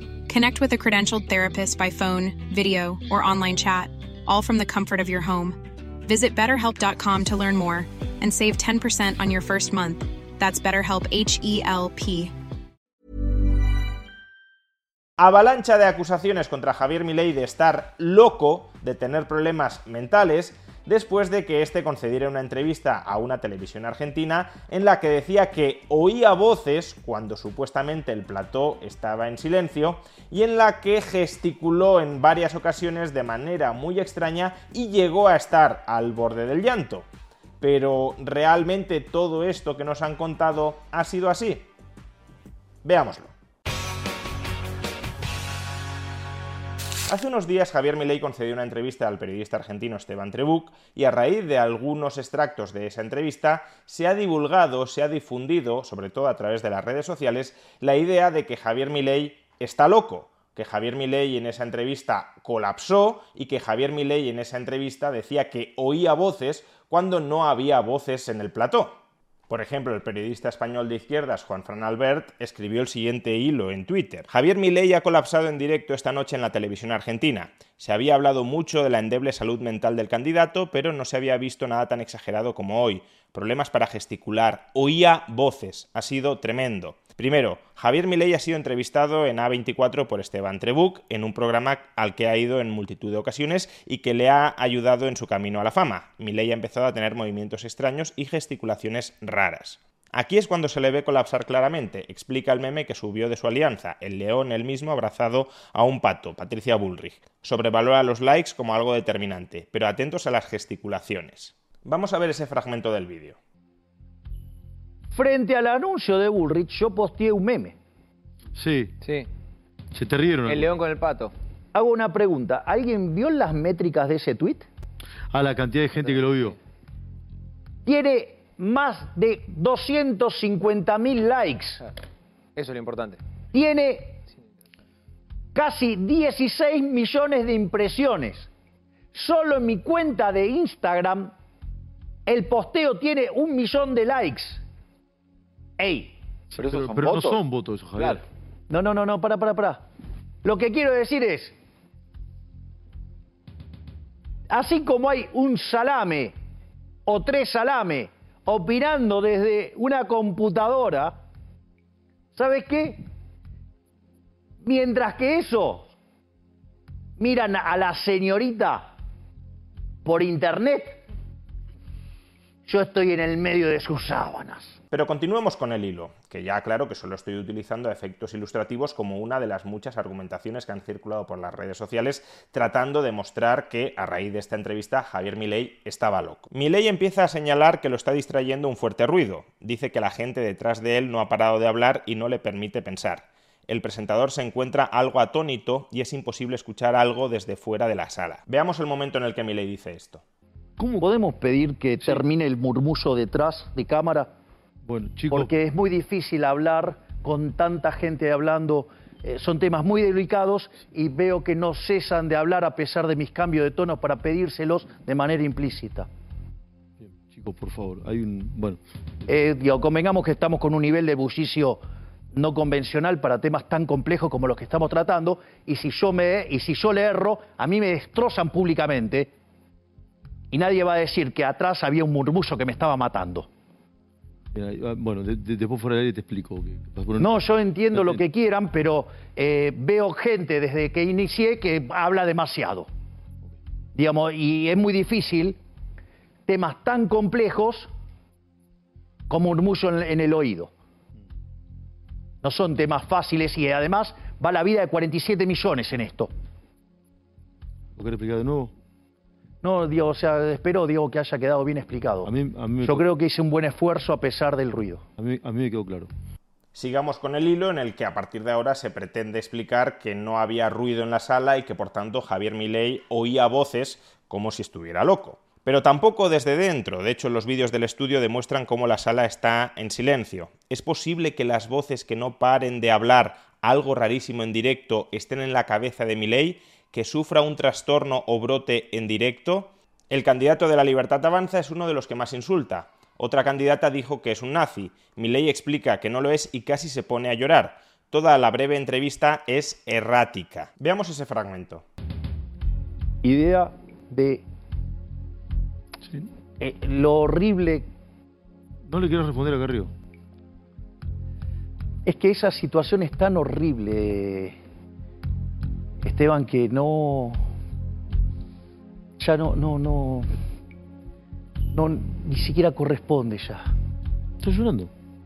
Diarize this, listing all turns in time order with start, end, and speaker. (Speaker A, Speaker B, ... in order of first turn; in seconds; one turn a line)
Speaker A: 0.2-12.3
Speaker B: 15.2-37.0
Speaker B: 37.6-41.6
Speaker B: 42.8-43.3
Speaker B: 47.1-113.4
Speaker C: 115.1-117.8
Speaker D: 118.5-118.9
Speaker E: 119.0-119.3
Speaker D: 119.9-120.7
Speaker E: 120.5-121.3
Speaker C: 121.7-124.7
Speaker D: 125.3-126.6
Speaker C: 127.8-131.8
Speaker E: 132.6-133.2
Speaker C: 133.5-134.2
Speaker C: 135.5-138.5
Speaker C: 139.1-141.3
Speaker C: 142.3-144.6
Speaker C: 145.8-146.1
Speaker D: 146.5-148.2
Speaker E: 146.6-147.4
Speaker E: 147.9-148.2
Speaker C: 148.7-149.8
Speaker C: 150.4-151.5
Speaker C: 154.5-156.3
Speaker C: 157.1-161.2
Speaker C: 162.3-163.0
Speaker C: 164.6-165.9
Speaker C: 167.2-168.9
Speaker C: 170.0-171.0
Speaker C: 172.7-174.8
Speaker B: 174.9-200.2
Speaker C: 201.0-204.3
Speaker D: 204.8-205.5
Speaker C: 205.3-216.1
Speaker D: 217.0-218.8
Speaker C: 219.2-221.8
Speaker C: 222.3-229.3
Speaker C: 230.5-233.5
Speaker D: 234.5-238.2
Speaker C: 237.2-242.9
Speaker C: 243.9-245.6
Speaker C: 246.5-247.9
Speaker C: 249.3-250.7
Speaker C: 252.4-256.3
Speaker D: 257.9-258.7
Speaker C: 259.6-262.3
Speaker D: 262.2-263.1
Speaker C: 262.8-265.0
Speaker D: 265.2-266.1
Speaker B: 266.7-301.9
Speaker C: 303.2-304.4
Speaker D: 306.0-306.3
Speaker C: 306.6-307.9
Speaker D: 308.8-309.9
Speaker C: 312.1-314.6
Speaker C: 316.0-317.4
Speaker C: 319.2-320.3
Speaker C: 321.7-323.7
Speaker D: 324.4-324.9